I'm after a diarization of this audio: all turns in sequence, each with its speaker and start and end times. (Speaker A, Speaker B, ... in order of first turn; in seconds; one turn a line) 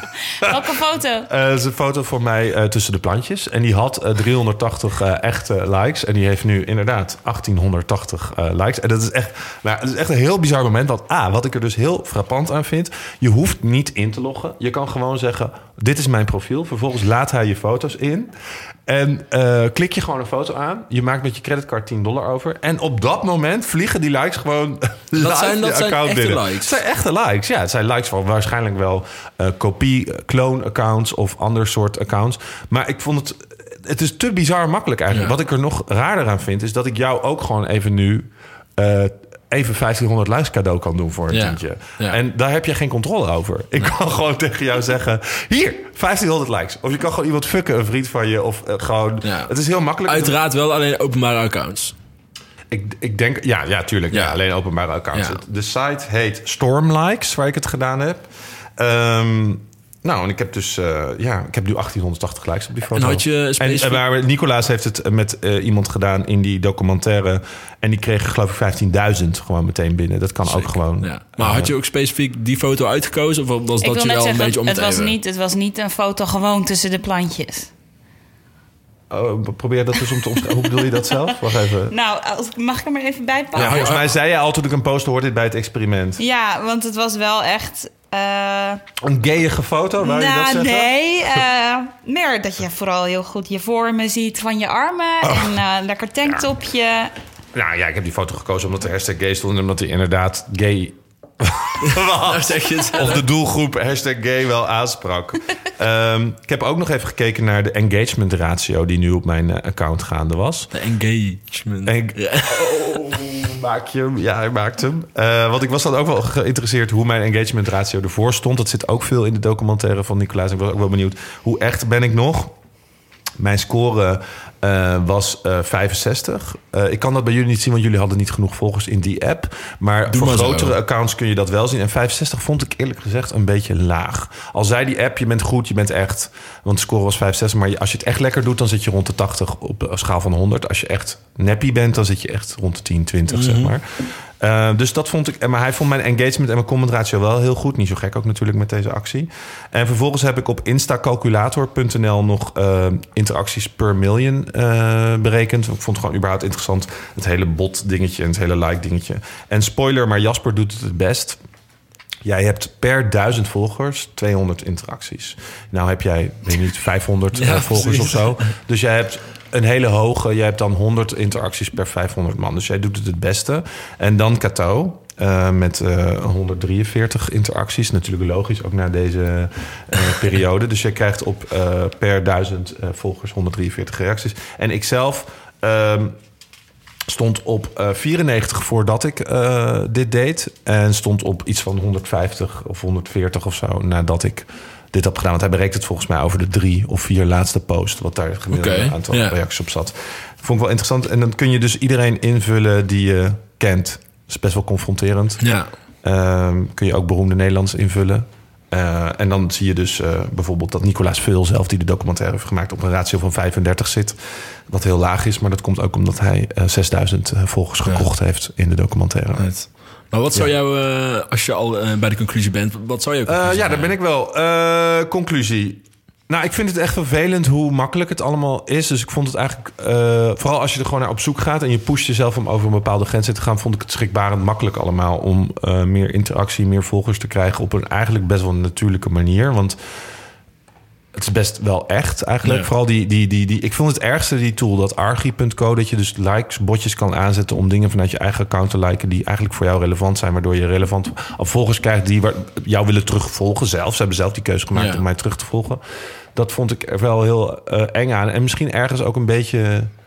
Speaker A: 0.3-1.3
Speaker B: 0.4-0.7
Speaker B: 1.3-18.3
Speaker B: 18.9-50.4
Speaker C: 25.1-26.8
Speaker C: 41.3-42.2
Speaker C: 49.2-49.5
Speaker C: 50.1-51.9
Speaker B: 52.7-71.7
Speaker C: 55.1-55.4
Speaker C: 62.9-64.0
Speaker C: 70.5-75.2
Speaker A: 73.8-77.7
Speaker B: 79.1-81.9
Speaker A: 80.8-81.2
Speaker A: 81.9-83.9
Speaker C: 83.5-84.1
Speaker B: 83.5-86.2
Speaker A: 86.2-88.8
Speaker B: 89.0-91.4
Speaker A: 90.0-97.1
Speaker B: 95.2-95.6
Speaker B: 97.5-110.7
Speaker C: 101.8-103.2
Speaker C: 110.7-112.7
Speaker B: 111.8-122.5
Speaker B: 123.4-161.4
Speaker C: 130.1-130.8
Speaker C: 143.3-143.7
Speaker B: 162.2-186.2
Speaker C: 167.3-168.4
Speaker B: 187.1-205.5
Speaker C: 198.5-199.4
Speaker C: 205.4-205.7
Speaker B: 206.0-219.5
Speaker C: 219.4-223.9
Speaker B: 223.2-239.8
Speaker B: 241.1-255.8
Speaker C: 242.4-242.7
Speaker C: 254.7-255.0
Speaker B: 256.3-259.9